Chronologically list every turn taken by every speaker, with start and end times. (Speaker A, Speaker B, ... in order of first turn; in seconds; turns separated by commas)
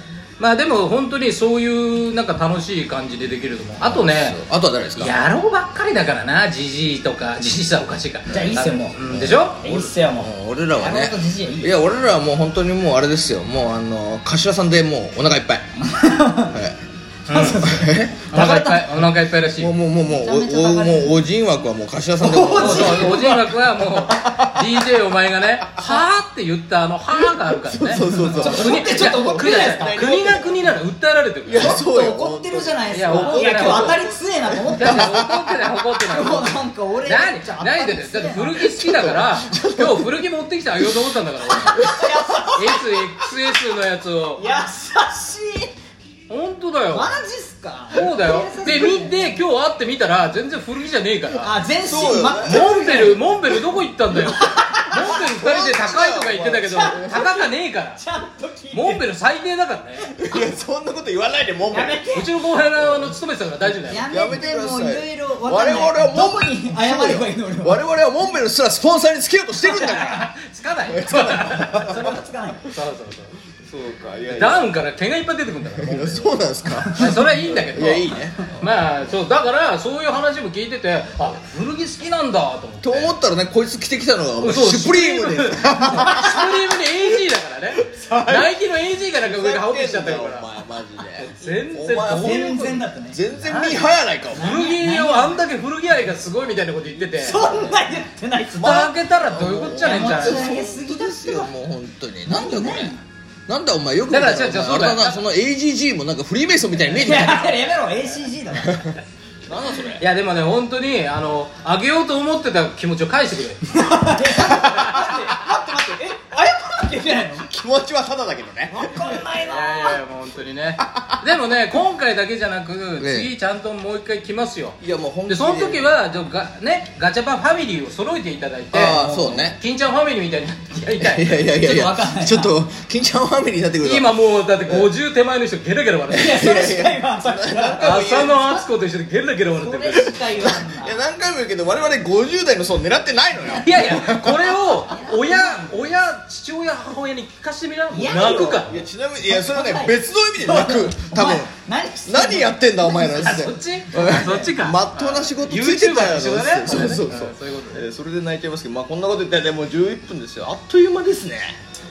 Speaker A: 0.4-4.4, Speaker B: 3.8-5.2, Speaker A: 5.0-9.6, Speaker C: 8.3-9.0, Speaker B: 9.0-15.6, Speaker C: 9.6-11.8, Speaker C: 15.8-16.5, Speaker B: 16.5-16.8, Speaker A: 17.3-17.7, Speaker C: 17.3-18.9, Speaker B: 17.6-18.3, Speaker A: 18.3-19.7, Speaker B: 19.6-23.4, Speaker C: 20.1-21.2, Speaker C: 22.2-23.4, Speaker A: 22.5-31.8, Speaker B: 24.1-24.6, Speaker B: 27.6-30.6, Speaker C: 28.0-30.3, Speaker B: 31.4-35.6, Speaker C: 31.6-35.3, Speaker A: 32.9-34.0, Speaker A: 34.7-41.9, Speaker C: 36.1-38.6, Speaker B: 38.6-40.1, Speaker B: 41.6-42.5, Speaker C: 41.7-43.0, Speaker A: 42.5-44.4, Speaker C: 44.4-45.7, Speaker A: 46.3-47.1, Speaker C: 46.9-49.4, Speaker A: 47.9-51.5, Speaker C: 51.4-53.2, Speaker B: 51.8-53.0, Speaker A: 52.4-58.0, Speaker C: 54.2-55.2, Speaker B: 55.1-57.2, Speaker C: 56.7-59.1, Speaker A: 58.7-60.0, Speaker C: 60.0-60.2, Speaker B: 60.2-62.1, Speaker C: 61.7-62.3, Speaker A: 62.1-64.1, Speaker B: 62.7-63.2, Speaker C: 63.8-67.9, Speaker B: 64.0-70.3, Speaker C: 69.6-70.2, Speaker A: 69.8-72.1, Speaker B: 70.9-72.2, Speaker C: 71.7-72.7, Speaker A: 72.7-73.3, Speaker B: 73.6-74.7, Speaker A: 74.3-76.4, Speaker B: 75.8-78.7, Speaker A: 76.9-83.1, Speaker B: 82.8-86.6, Speaker A: 84.4-90.5, Speaker B: 87.9-88.5, Speaker B: 89.2-94.6, Speaker A: 91.2-92.8, Speaker C: 92.1-93.3, Speaker A: 93.4-97.5, Speaker C: 94.3-95.4, Speaker C: 97.1-98.9, Speaker B: 97.3-97.8, Speaker A: 98.5-100.5, Speaker B: 98.5-107.8, Speaker C: 99.6-101.5, Speaker C: 102.2-103.0, Speaker A: 104.1-105.2, Speaker C: 106.9-109.0, Speaker B: 109.5-110.0, Speaker A: 110.0-113.7, Speaker C: 113.7-117.5, Speaker B: 114.5-115.3, Speaker B: 117.4-119.3, Speaker C: 118.7-120.0, Speaker A: 119.4-131.4, Speaker B: 123.0-123.3, Speaker B: 124.8-125.9, Speaker B: 128.7-129.6, Speaker B: 131.0-134.1, Speaker C: 131.5-132.6, Speaker A: 133.8-136.5, Speaker C: 136.1-138.6, Speaker B: 136.1-138.5, Speaker A: 137.8-140.4, Speaker C: 139.6-141.0, Speaker B: 139.9-144.6, Speaker C: 143.4-144.1, Speaker A: 143.5-148.9, Speaker C: 144.7-145.8, Speaker C: 147.9-148.7, Speaker B: 148.6-151.5, Speaker C: 149.2-153.2, Speaker B: 152.1-161.6, Speaker A: 153.1-157.8